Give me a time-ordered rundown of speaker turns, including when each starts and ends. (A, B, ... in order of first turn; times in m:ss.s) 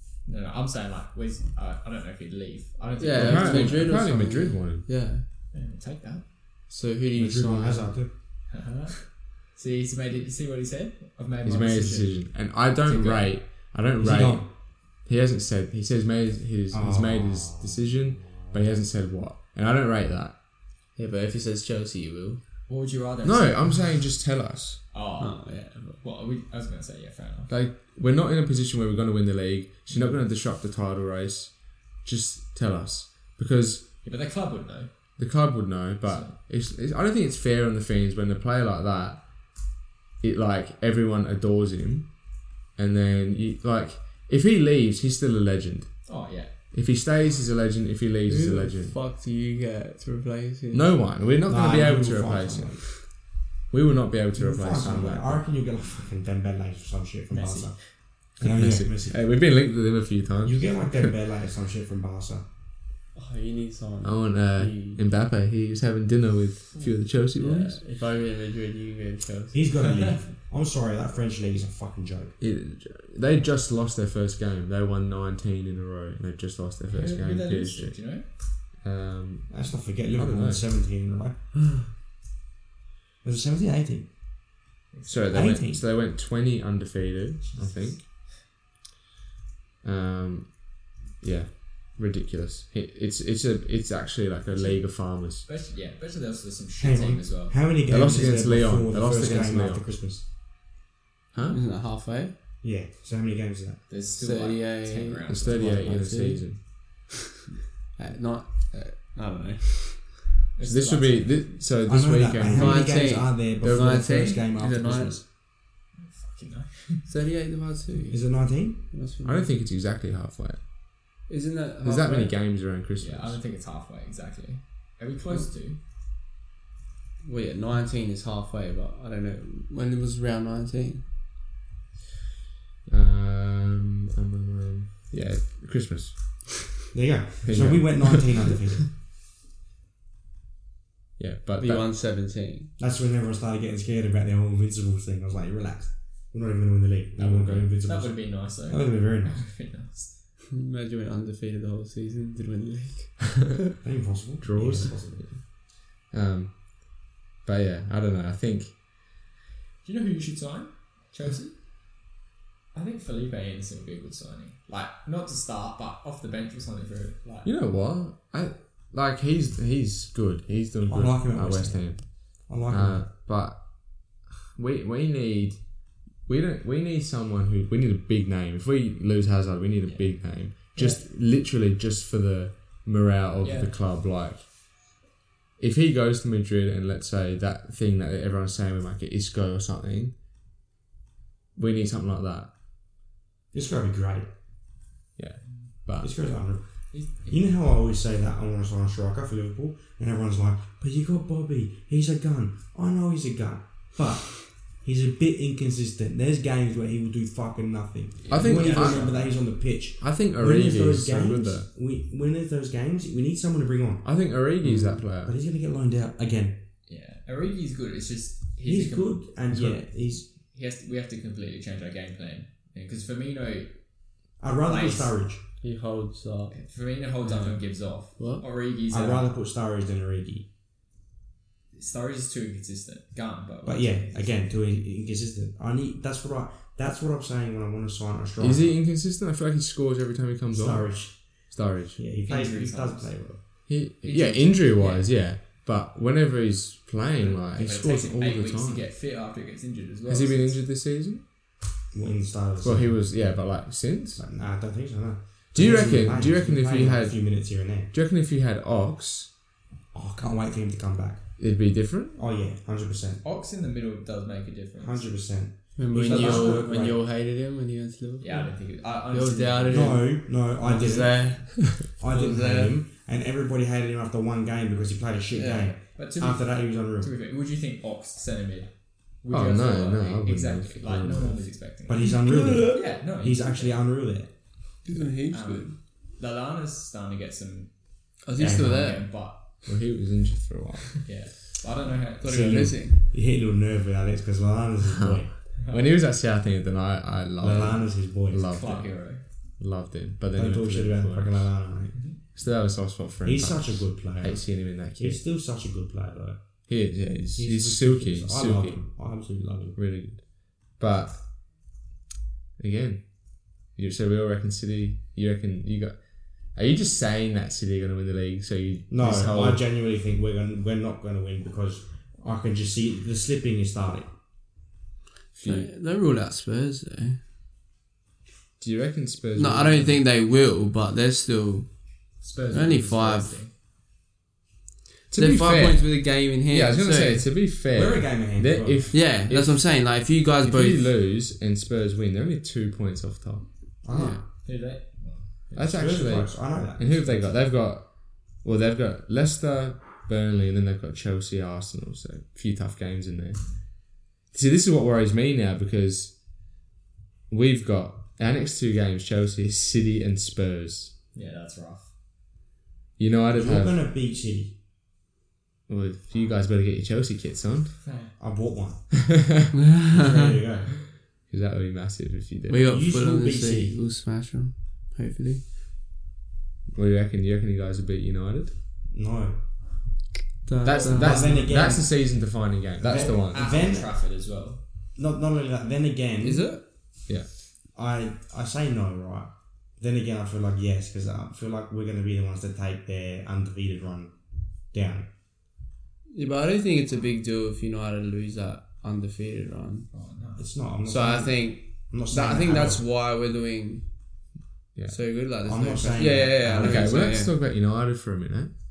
0:00.2-0:03.9 A
0:03.0-0:05.2 B
0:03.1-0:04.8 C
0:05.5-0:06.2 A
0:06.7-0:07.9 B
0:07.1-0:08.1 D
0:08.5-0:12.2 A
0:11.4-0:14.5 C
0:12.8-0:13.3 A
0:14.0-0:14.5 D
0:15.0-0:20.3 C
0:16.7-0:18.6 D
0:21.0-0:22.4 B
0:22.7-0:23.8 A
0:23.2-0:24.8 C
0:24.9-0:27.5 A
0:25.2-0:26.0 B
0:27.5-0:33.9 C
0:34.0-0:34.9 A
0:35.2-0:39.2 C
0:36.0-0:36.3 A
0:40.2-0:42.1 C
0:42.8-0:45.9 C
0:46.0-0:46.5 A
0:46.7-0:48.9 C
0:48.2-0:50.9 B
0:50.7-0:53.0 C
0:51.4-0:52.9 D
0:53.7-0:55.4 C
0:54.3-0:57.8 D
0:57.3-0:57.8 A
0:58.4-0:59.2 D
0:58.4-1:01.2 C
1:00.4-1:02.4 D
1:03.1-1:05.0 B
1:04.0-1:07.8 C
1:07.4-1:09.6 B
1:09.5-1:12.4 D
1:12.4-1:18.0 C
1:16.9-1:18.3 A
1:18.8-1:19.5 C
1:19.5-1:21.3 D
1:20.1-1:20.6 C
1:23.2-1:24.1 D
1:24.9-1:25.4 A
1:25.1-1:28.0 C
1:25.3-1:25.8 D
1:27.4-1:28.3 A
1:29.8-1:30.7 C
1:31.2-1:35.4 C
1:34.5-1:37.6 A
1:36.8-1:40.2 D
1:37.8-1:39.8 C
1:41.3-1:41.6 C
1:41.5-1:42.3 B
1:42.6-1:43.8 D
1:43.9-1:45.8 A
1:44.2-1:46.5 B
1:45.3-1:46.6 C
1:47.9-1:50.2 B
1:50.6-1:51.5 A
1:50.6-1:54.0 C
1:51.8-1:55.2 D
1:52.5-1:55.2 B
1:56.0-1:57.1 A
1:57.1-1:58.2 B
1:58.1-1:58.9 D
1:58.9-1:59.5 B
1:59.2-2:00.6 C
2:01.3-2:02.3 B
2:01.8-2:03.4 C
2:03.0-2:05.8 A
2:07.2-2:11.0 B
2:12.9-2:16.5 C
2:16.9-2:18.9 D
2:17.4-2:18.2 C
2:21.2-2:21.8 C
2:21.6-2:22.7 B
2:22.8-2:29.4 D
2:27.2-2:30.2 A
2:30.5-2:33.5 B
2:33.8-2:35.3 D
2:34.4-2:35.5 C
2:36.1-2:38.8 C
2:39.8-2:41.5 A
2:42.7-2:47.5 A
2:47.4-2:55.6 C
2:50.9-2:53.0 D
2:56.2-3:04.4 C
2:59.8-3:01.0 A
3:03.4-3:03.7 A
3:05.6-3:10.2 C
3:11.6-3:12.5 C
3:13.5-3:14.3 D
3:15.2-3:16.1 C
3:16.0-3:16.7 D
3:16.9-3:17.4 A
3:17.2-3:34.1 D
3:28.2-3:29.3 A
3:28.3-3:29.2 C
3:30.0-3:31.7 C
3:34.0-3:35.4 C
3:34.6-3:35.0 B
3:35.2-3:36.7 D
3:36.9-3:39.2 A
3:38.6-3:40.3 D
3:40.5-3:43.8 A
3:44.4-3:45.4 D
3:44.6-3:45.1 A
3:45.6-3:46.5 B
3:46.5-3:49.3 A
3:48.2-3:48.4 B
3:48.9-3:50.5 D
3:51.7-3:54.3 A
3:53.6-3:58.8 D
3:58.4-4:00.9 C
4:00.5-4:03.4 D
4:01.5-4:02.0 C
4:02.2-4:03.3 A
4:03.7-4:08.9 C
4:04.0-4:05.1 A
4:07.2-4:10.6 A
4:10.1-4:11.2 C
4:11.9-4:13.0 D
4:12.6-4:14.2 C
4:14.2-4:17.9 D
4:15.5-4:17.2 C
4:17.9-4:19.3 C
4:19.9-4:21.3 D
4:21.4-4:22.2 C
4:22.1-4:23.2 D
4:23.2-4:25.1 A
4:24.8-4:27.0 D
4:25.8-4:28.5 B
4:26.0-4:26.6 C
4:26.1-4:26.5 A
4:28.2-4:30.0 A
4:29.1-4:32.8 B
4:29.7-4:37.1 D
4:35.3-4:35.7 B
4:35.9-4:38.7 A
4:39.2-4:42.2 A
4:39.3-4:41.5 C
4:41.8-4:44.3 D
4:42.0-4:42.9 B
4:42.7-4:43.8 A
4:44.8-4:45.8 B
4:45.3-4:47.7 A
4:48.2-4:49.1 B
4:48.3-4:49.6 A
4:48.4-4:48.7 D
4:49.6-4:51.0 C
4:51.0-4:52.6 A
4:52.2-4:53.0 B
4:52.3-4:55.3 D
4:54.9-4:58.9 C
4:55.6-4:55.9 A
4:57.4-4:58.4 D
4:58.5-4:59.2 A
4:59.6-5:01.5 C
5:00.3-5:02.0 D
5:01.9-5:02.2 A
5:02.3-5:05.2 C
5:03.2-5:06.5 D
5:06.7-5:08.8 C
5:07.4-5:09.8 D
5:09.8-5:11.2 C
5:12.6-5:13.1 C
5:13.6-5:16.0 C
5:16.5-5:19.6 C
5:18.9-5:24.1 D
5:25.4-5:25.7 C
5:25.4-5:27.2 B
5:28.6-5:30.0 C
5:29.4-5:31.7 B
5:32.2-5:33.5 A
5:32.5-5:33.4 B
5:35.1-5:39.6 C
5:35.1-5:37.2 B
5:37.7-5:38.9 D
5:38.9-5:40.9 B
5:40.4-5:43.4 C
5:43.8-5:44.2 D
5:43.9-5:44.2 B
5:44.4-5:45.8 A
5:45.6-5:47.9 C
5:45.7-5:47.3 D
5:48.4-5:53.4 C
5:54.3-5:56.2 C
5:57.3-6:00.9 C
6:01.1-6:01.9 A
6:03.0-6:03.8 C
6:03.3-6:04.6 D
6:05.7-6:07.8 C
6:07.8-6:08.1 A
6:08.2-6:08.9 D
6:09.1-6:09.5 C
6:09.5-6:10.3 B
6:09.9-6:10.8 D
6:10.9-6:12.6 C
6:12.5-6:15.4 B
6:12.6-6:13.8 D
6:16.7-6:18.5 C
6:18.9-6:19.4 D
6:20.4-6:21.6 B
6:20.6-6:23.4 C
6:20.7-6:22.2 D
6:22.8-6:23.9 D
6:22.9-6:24.6 A
6:24.9-6:26.5 D
6:26.2-6:26.6 B
6:27.7-6:34.2 D
6:34.7-6:35.1 D
6:36.1-6:39.8 B
6:39.9-6:40.5 A
6:40.4-6:42.8 D
6:40.8-6:43.8 B
6:44.9-6:47.3 B
6:45.4-6:47.1 D
6:46.5-6:48.5 C